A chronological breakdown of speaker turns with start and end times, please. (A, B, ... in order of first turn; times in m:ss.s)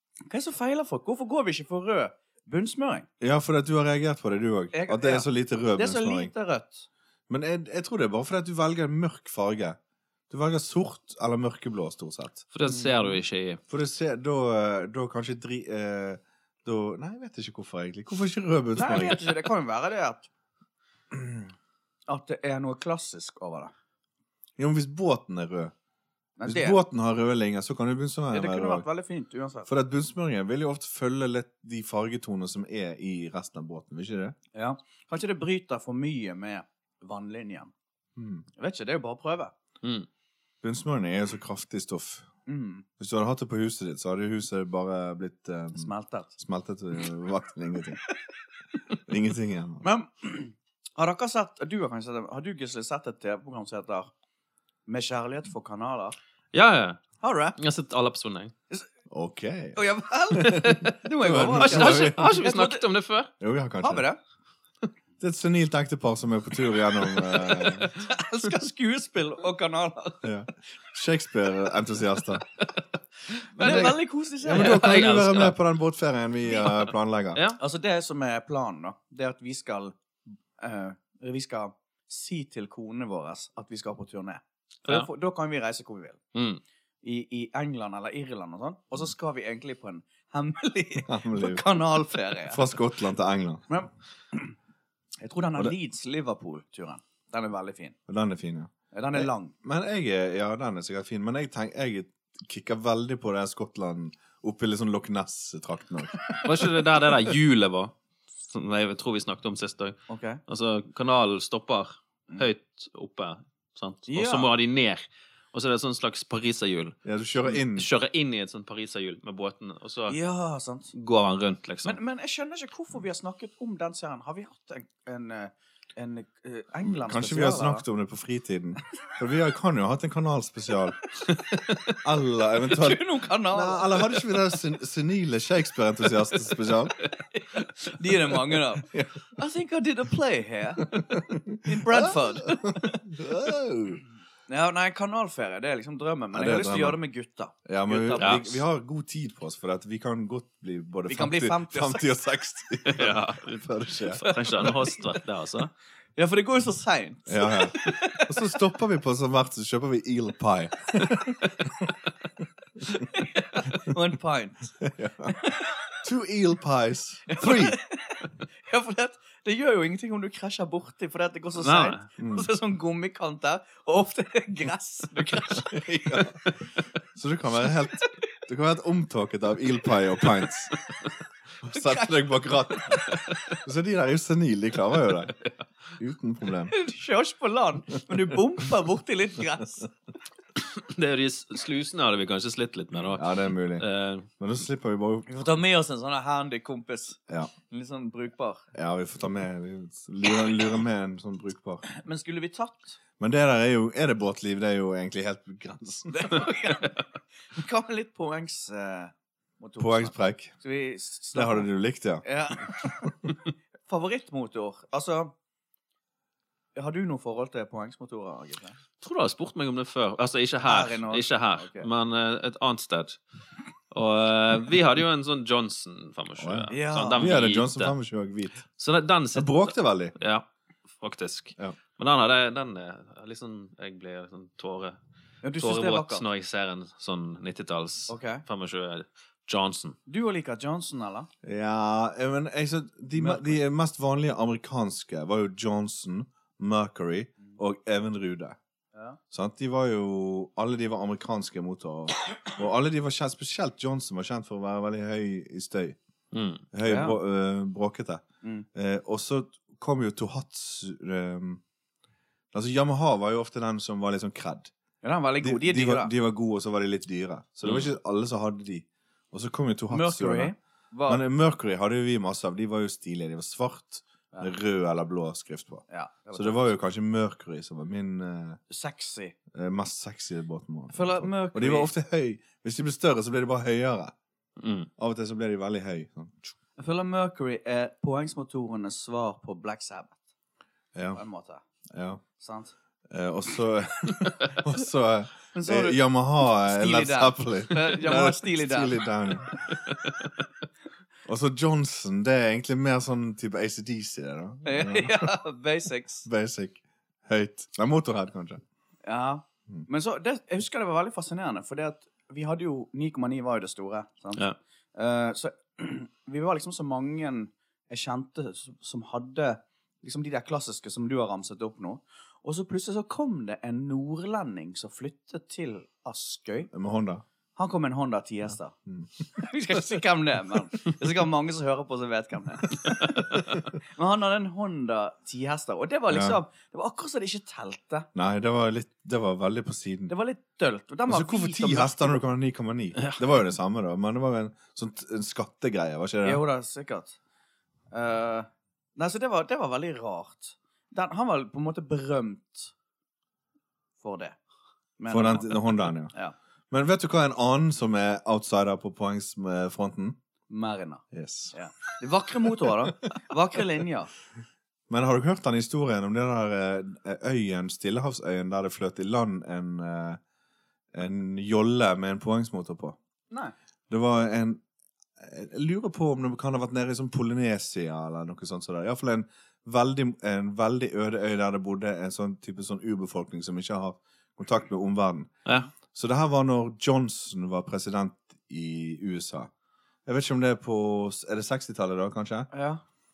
0:00.3-0:03.1 A
0:03.2-0:06.3 B
0:04.7-0:06.9 A
0:07.3-0:09.8 B
0:10.3-0:12.4 B
0:12.5-0:13.6 C
0:12.7-0:13.0 A
0:13.7-0:19.2 B
0:18.8-0:20.3 A
0:22.1-0:23.7 A
0:24.6-0:25.7 B
0:26.4-0:26.8 A
0:26.4-0:28.8 B
0:28.3-0:29.7 A
0:29.7-0:34.4 B
0:34.5-0:37.7 A
0:38.2-0:38.4 B
0:38.6-0:39.5 A
0:39.8-0:40.1 C
0:40.6-0:42.3 B
0:42.4-0:42.8 A
0:43.0-0:48.0 B
0:45.7-0:46.3 A
0:49.0-0:49.8 B
0:49.8-0:54.1 A
0:54.9-0:56.2 A
0:56.5-0:57.0 C
0:57.2-0:57.6 A
0:57.6-0:58.5 C
0:59.1-0:59.8 B
0:59.8-1:02.8 A
1:00.3-1:02.4 B
1:01.4-1:03.3 C
1:03.4-1:04.0 B
1:03.8-1:04.2 A
1:05.2-1:07.9 B
1:07.3-1:10.2 A
1:10.2-1:12.5 B
1:13.6-1:15.0 A
1:13.6-1:17.4 B
1:13.6-1:13.9 C
1:14.5-1:15.6 C
1:16.6-1:17.6 C
1:17.6-1:19.9 A
1:20.6-1:26.2 A
1:26.3-1:26.6 C
1:27.0-1:32.8 A
1:31.1-1:31.6 B
1:32.4-1:33.6 B
1:33.7-1:34.5 A
1:35.2-1:38.0 A
1:38.1-1:46.8 B
1:38.9-1:39.5 A
1:46.4-1:47.9 C
1:48.5-2:00.2 C
1:50.1-1:50.4 A
1:54.1-1:54.5 A
1:57.0-1:57.9 B
2:00.1-2:00.9 A
2:00.9-2:02.0 C
2:01.8-2:07.8 A
2:06.8-2:11.0 B
2:11.3-2:12.0 C
2:12.0-2:16.9 B
2:12.6-2:14.3 A
2:17.3-2:21.1 A
2:18.9-2:19.2 B
2:20.8-2:24.0 B
2:21.6-2:23.0 A
2:24.5-2:28.6 A
2:26.3-2:27.0 B
2:27.6-2:34.3 B
2:31.1-2:32.1 A
2:32.8-2:35.7 C
2:34.2-2:35.0 A
2:36.2-2:38.4 A
2:37.3-2:41.9 B
2:42.9-2:45.8 A
2:44.8-2:45.4 B
2:45.9-2:47.8 B
2:47.3-2:56.2 A
2:51.6-2:52.0 C
2:52.2-2:52.5 B
2:55.6-2:56.4 B
2:57.1-3:00.7 B
3:01.6-3:05.3 B
3:01.7-3:03.2 A
3:06.0-3:06.8 B
3:06.7-3:09.9 A
3:10.6-3:14.3 C
3:13.1-3:13.8 B
3:14.4-3:15.4 B
3:15.3-3:18.6 A
3:18.7-3:21.8 B
3:21.9-3:23.0 A
3:23.2-3:26.4 B
3:26.1-3:31.7 A
3:29.8-3:30.5 B
3:31.3-3:33.1 B
3:32.2-3:33.1 A
3:33.8-3:35.3 A
3:36.8-3:38.8 A
3:39.0-3:43.2 C
3:40.6-3:41.9 A
3:43.9-3:47.9 C
3:46.4-3:48.6 B
3:46.7-3:47.3 A
3:48.7-3:50.4 C
3:49.3-3:50.1 B
3:51.0-3:55.0 C
3:55.4-3:56.2 A
3:55.6-4:00.0 C
3:58.1-3:58.4 A
4:00.1-4:01.3 A
4:01.4-4:08.6 B
4:03.1-4:03.6 A
4:08.9-4:09.2 A
4:09.3-4:16.0 B
4:16.3-4:16.6 C
4:16.7-4:18.2 B
4:16.8-4:17.2 A
4:18.7-4:21.6 B
4:22.5-4:24.7 B
4:25.0-4:26.1 A
4:25.4-4:30.5 B
4:27.6-4:27.9 C
4:29.9-4:31.2 A
4:31.1-4:38.6 B
4:35.9-4:36.7 A
4:38.7-4:39.3 A
4:39.5-4:44.1 B
4:40.9-4:41.9 A
4:44.6-4:44.9 C
4:45.0-4:46.4 B
4:46.8-4:50.2 A
4:50.9-4:51.2 B
4:51.1-4:51.6 A
4:51.9-4:52.2 B
4:52.4-4:52.7 A
4:53.1-4:59.8 B
4:55.5-4:59.0 A
5:01.2-5:05.3 B
5:04.6-5:06.3 A
5:06.2-5:08.6 B
5:09.0-5:26.7 A
5:26.7-5:27.2 B
5:27.6-5:28.8 A
5:29.3-5:38.1 A
5:36.1-5:36.4 B
5:38.1-5:40.1 B
5:40.1-5:42.2 A
5:41.1-5:46.4 B
5:46.2-5:47.2 A
5:47.9-5:52.7 A
5:54.0-5:54.4 A
5:55.0-5:56.3 A
5:55.1-5:56.1 B
5:56.7-6:00.2 B
6:00.5-6:04.1 A
6:01.1-6:01.5 B
6:04.9-6:10.2 B
6:10.9-6:13.0 B
6:13.9-6:14.6 B
6:15.2-6:25.3 B
6:25.9-6:29.5 B
6:30.0-6:32.5 B
6:32.5-6:32.8 A